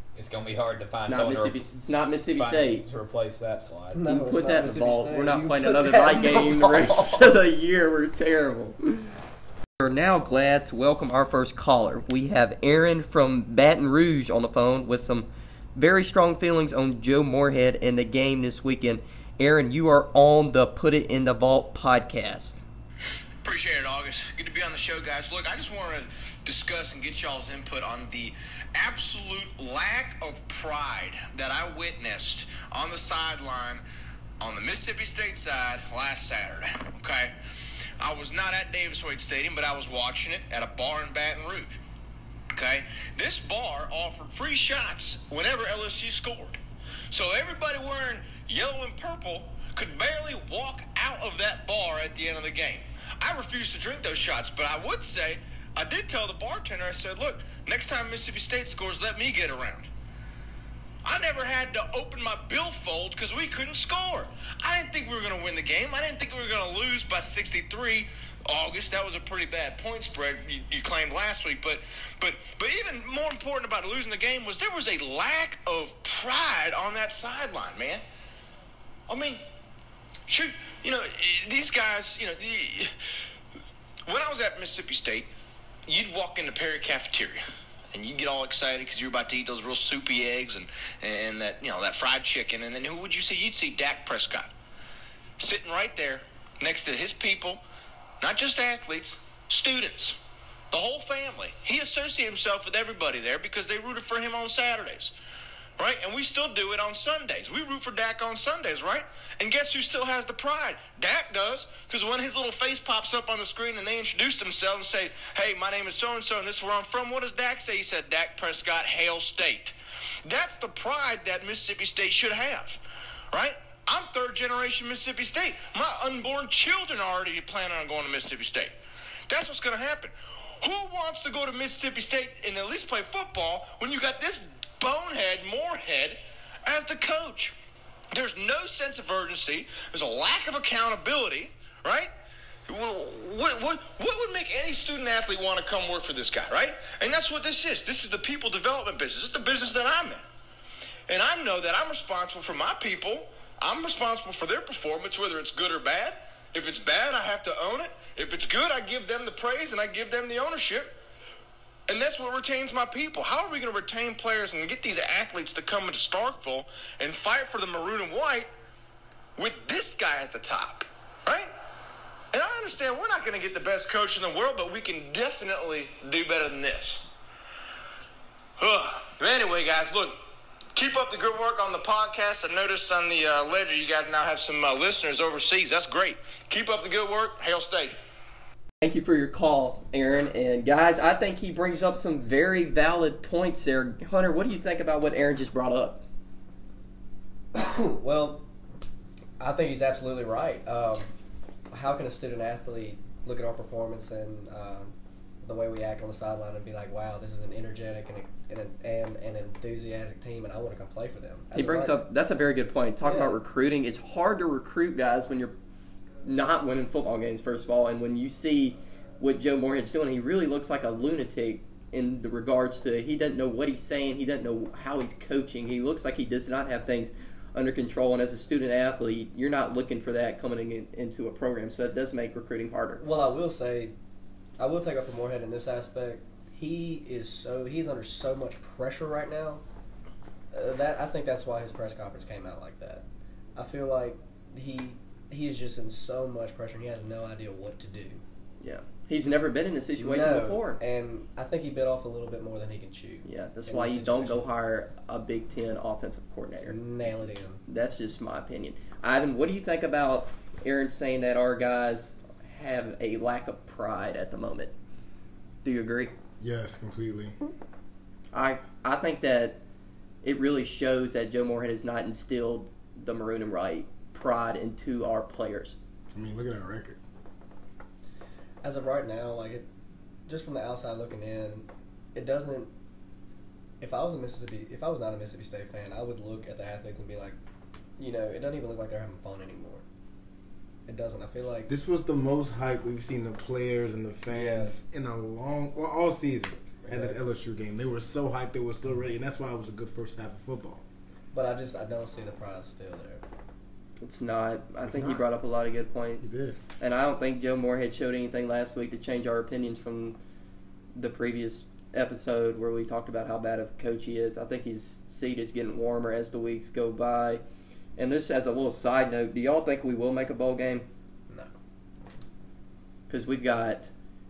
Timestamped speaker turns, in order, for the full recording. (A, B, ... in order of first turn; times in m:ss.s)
0:00.2-0:01.6 A
0:01.0-0:02.8 B
0:02.4-0:04.1 A
0:03.9-0:07.4 C
0:04.1-0:09.1 B
0:09.8-0:22.6 B
0:23.4-0:33.8 D
0:34.4-0:37.3 D
0:38.0-0:41.8 D
0:42.5-0:46.6 D
0:47.1-0:59.9 D
1:01.0-1:18.0 D
1:19.1-1:19.4 D
1:20.3-1:23.0 D
1:24.1-1:27.4 D
1:27.9-1:34.5 D
1:35.4-1:37.6 D
1:38.2-1:40.2 D
1:40.7-1:45.1 D
1:45.8-1:59.7 D
2:00.2-2:02.8 D
2:03.3-2:08.7 D
2:09.3-2:17.6 D
2:18.1-2:22.1 D
2:22.7-2:30.2 D
2:31.1-2:40.9 D
2:41.9-2:48.5 D
2:49.4-2:51.5 D
2:52.3-2:57.1 D
2:58.6-3:00.2 D
3:00.8-3:08.0 D
3:08.8-3:16.0 B
3:17.5-3:18.4 C
3:19.4-3:21.1 C
3:21.7-3:32.0 C
3:31.5-3:35.5 B
3:33.0-3:33.4 C
3:36.2-3:53.0 B
3:53.0-3:53.9 C
3:54.6-3:59.6 C
4:00.5-4:03.0 C
4:03.6-4:08.2 C
4:08.6-4:10.8 B
4:10.0-4:14.4 C
4:13.2-4:16.8 B
4:16.7-4:17.6 C
4:17.7-4:24.7 B
4:25.6-4:26.1 B
4:26.4-4:27.4 E
4:28.3-4:29.6 B
4:30.2-4:35.8 B
4:36.1-4:37.0 E
4:38.6-4:39.7 C
4:40.3-4:42.7 C
4:43.8-4:47.4 C
4:48.0-4:49.8 C
4:50.9-4:51.7 C
4:51.7-5:00.8 E
4:54.3-4:54.8 C
4:56.8-4:57.2 C
5:01.3-5:03.2 C
5:04.0-5:06.3 B
5:04.8-5:05.3 E
5:06.2-5:06.6 E
5:06.8-5:10.2 B
5:11.0-5:17.4 B
5:18.0-5:20.9 B
5:23.1-5:23.9 B